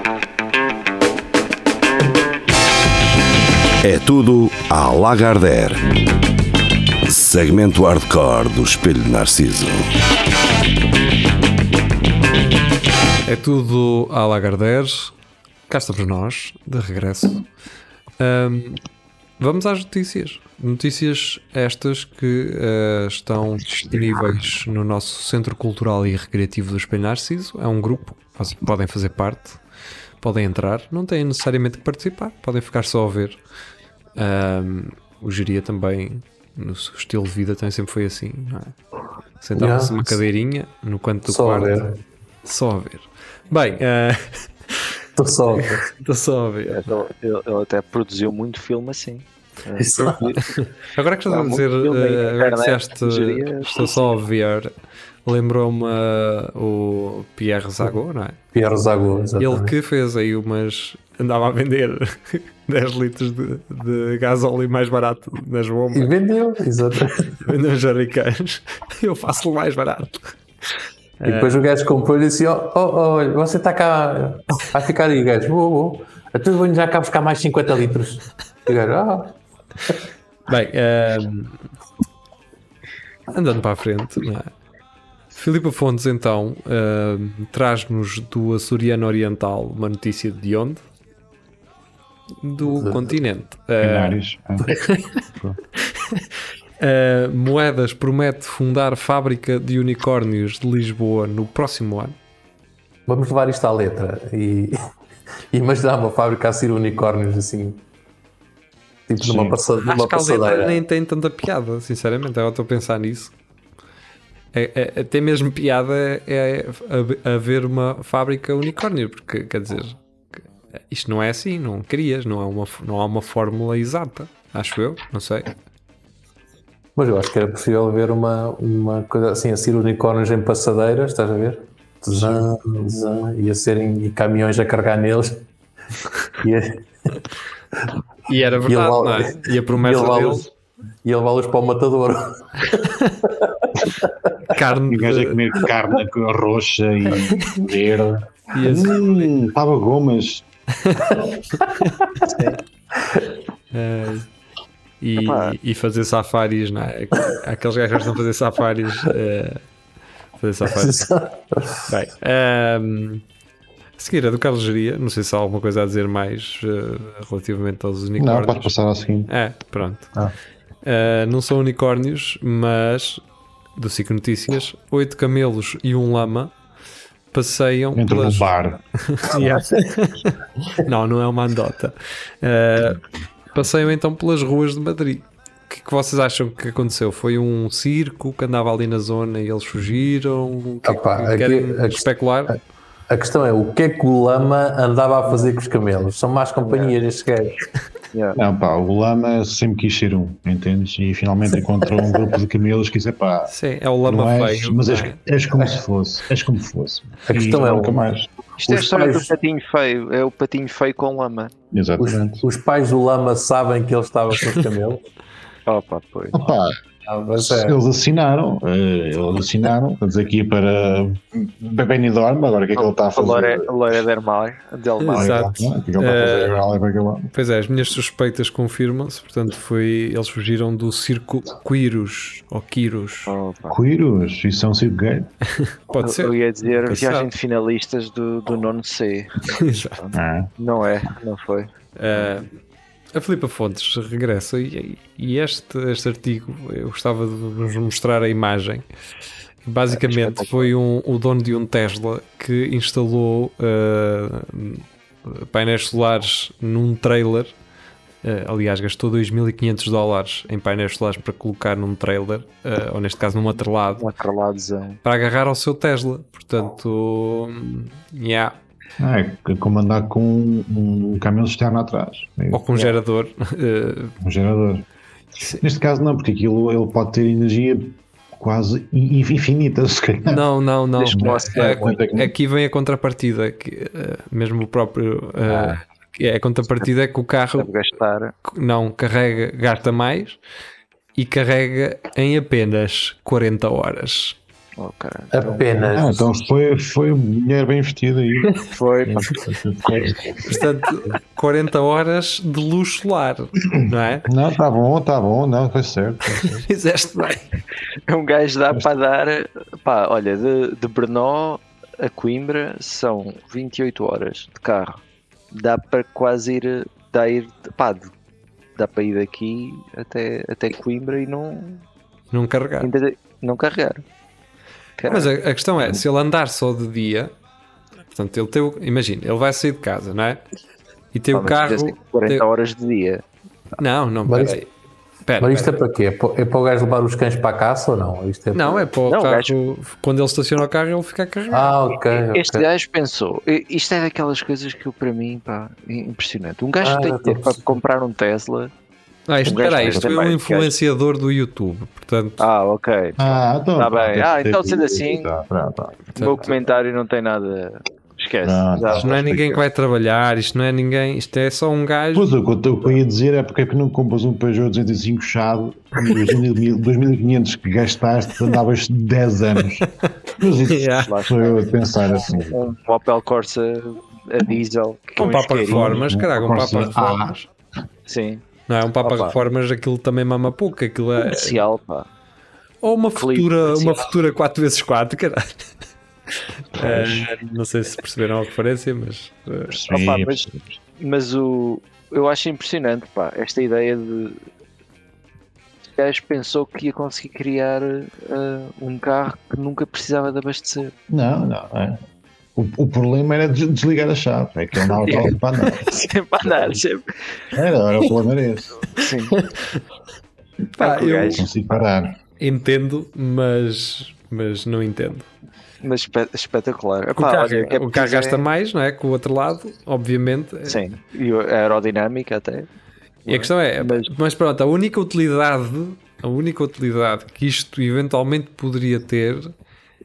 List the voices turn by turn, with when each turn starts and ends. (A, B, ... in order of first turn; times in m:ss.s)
0:03.8-0:05.9 A
0:07.0-0:09.9 A
0:13.2-0:15.1 B
0:15.7-0:17.4 B
0:18.2-0:18.8 B
0:19.4-0:29.6 B
0:30.2-0:33.4 B
0:34.2-0:38.7 B
0:39.4-0:41.8 B
0:39.6-0:40.2 C
0:41.3-0:42.0 C
0:42.4-0:45.0 B
0:45.2-0:45.9 C
0:45.9-0:47.0 B
0:46.7-0:50.6 D
0:49.8-0:50.3 C
0:50.5-0:54.7 B
0:51.3-0:54.1 D
0:55.3-0:58.4 B
0:58.5-0:59.7 C
0:59.4-1:06.1 B
1:05.9-1:07.4 C
1:07.4-1:10.3 B
1:11.2-1:11.6 B
1:11.2-1:19.4 C
1:20.5-1:21.6 B
1:23.3-1:24.5 B
1:25.3-1:30.8 B
1:32.4-1:34.2 B
1:32.7-1:33.1 C
1:33.8-1:34.8 E
1:34.7-1:35.1 B
1:36.8-1:42.1 B
1:43.1-1:44.8 C
1:45.5-1:47.8 C
1:49.1-1:50.8 C
1:49.2-1:49.6 E
1:49.9-1:53.3 B
1:54.5-2:00.0 B
2:00.9-2:05.5 B
2:07.0-2:15.5 C
2:16.4-2:16.9 C
2:18.3-2:20.5 B
2:18.7-2:20.5 C
2:21.0-2:24.1 C
2:24.5-2:25.4 B
2:24.9-2:30.4 E
2:28.5-2:29.3 B
2:30.8-2:31.2 B
2:31.2-2:32.3 C
2:32.3-2:32.6 D
2:33.0-2:33.3 C
2:33.7-2:34.3 B
2:35.0-2:39.6 B
2:35.2-2:35.6 D
2:40.4-2:41.1 B
2:40.7-2:41.9 C
2:41.9-2:43.2 B
2:44.0-2:48.8 B
2:48.2-2:49.3 E
2:49.3-2:50.1 B
2:50.8-2:53.2 B
2:53.8-2:56.5 B
2:57.3-2:58.5 B
2:58.0-2:59.6 E
2:59.1-3:03.0 B
3:03.5-3:12.5 B
3:10.8-3:12.6 C
3:13.1-3:17.6 C
3:16.7-3:17.0 D
3:18.1-3:18.4 D
3:18.4-3:23.5 E
3:23.5-3:25.2 B
3:24.0-3:28.3 E
3:27.3-3:28.0 C
3:28.6-3:31.5 D
3:28.6-3:29.3 C
3:31.7-3:32.4 E
3:32.0-3:35.0 C
3:35.7-3:36.5 D
3:36.3-3:36.8 E
3:37.1-3:37.8 C
3:37.4-3:43.7 E
3:42.8-3:45.4 D
3:45.0-3:46.6 B
3:45.2-3:47.3 E
3:47.3-3:53.4 B
3:53.3-3:53.8 D
3:53.7-3:55.3 E
3:55.6-3:57.3 B
3:56.0-4:02.3 D
3:59.6-4:00.0 B
4:00.1-4:00.5 E
4:02.0-4:02.5 B
4:03.1-4:08.9 B
4:09.6-4:17.5 B
4:09.9-4:10.7 D
4:18.2-4:24.1 B
4:24.0-4:25.0 D
4:25.0-4:28.6 B
4:29.0-4:32.6 E
4:32.5-4:34.2 B
4:32.7-4:33.0 D
4:34.2-4:34.8 E
4:35.6-4:40.4 E
4:40.3-4:47.7 B
4:41.0-4:42.0 D
4:41.1-4:42.3 E
4:45.5-4:45.8 E
4:47.6-4:48.3 D
4:48.5-4:50.4 B
4:51.2-4:54.4 B
4:54.8-4:56.0 D
4:55.3-4:56.2 C
4:55.9-5:00.6 E
4:58.6-4:59.4 D
5:00.5-5:04.2 B
5:04.3-5:06.6 E
5:06.4-5:07.5 B
5:08.1-5:15.0 D
5:15.5-5:18.1 D
5:18.8-5:21.8 D
5:22.3-5:22.9 B
5:22.8-5:24.0 D
5:25.0-5:25.3 D
5:25.1-5:27.3 B
5:28.1-5:30.4 B
5:31.1-5:32.4 B
5:31.3-5:33.2 D
5:33.8-5:34.7 B
5:34.2-5:34.6 C
5:35.2-5:35.7 B
5:35.4-5:38.9 C
5:38.5-5:41.8 B
5:39.1-5:39.5 D
5:41.5-5:42.7 C
5:42.3-5:48.7 D
5:46.8-5:47.8 C
5:49.3-5:52.4 B
5:49.4-5:50.7 D
5:52.4-5:55.3 D
5:53.2-5:56.1 E
5:56.2-5:56.5 B
5:56.2-5:59.6 D
5:58.4-5:59.4 E
5:59.0-6:02.3 B
6:02.1-6:12.7 E
6:10.7-6:11.1 B
6:10.9-6:11.6 D
6:12.5-6:16.0 D
6:15.2-6:17.5 B
6:15.7-6:17.4 E
6:18.1-6:18.4 D
6:18.7-6:21.6 B
6:19.0-6:19.4 C
6:21.2-6:22.1 D
6:22.8-6:25.5 B
6:23.2-6:24.1 D
6:26.8-6:27.3 E
6:26.8-6:29.8 B
6:29.7-6:30.8 E
6:29.8-6:34.4 D
6:35.9-6:40.9 D
6:41.1-6:42.0 E
6:42.6-6:45.9 E
6:44.9-6:47.1 D
6:46.4-6:46.8 E
6:47.5-6:48.8 E
6:48.9-6:49.4 D
6:49.4-6:49.8 B
6:50.8-6:51.5 B
6:50.8-6:51.5 D
6:51.3-6:52.2 E
6:52.4-6:55.3 B
6:55.8-6:58.4 D
6:57.2-7:00.8 B
7:00.7-7:02.7 D
7:03.2-7:04.1 D
7:03.3-7:09.5 B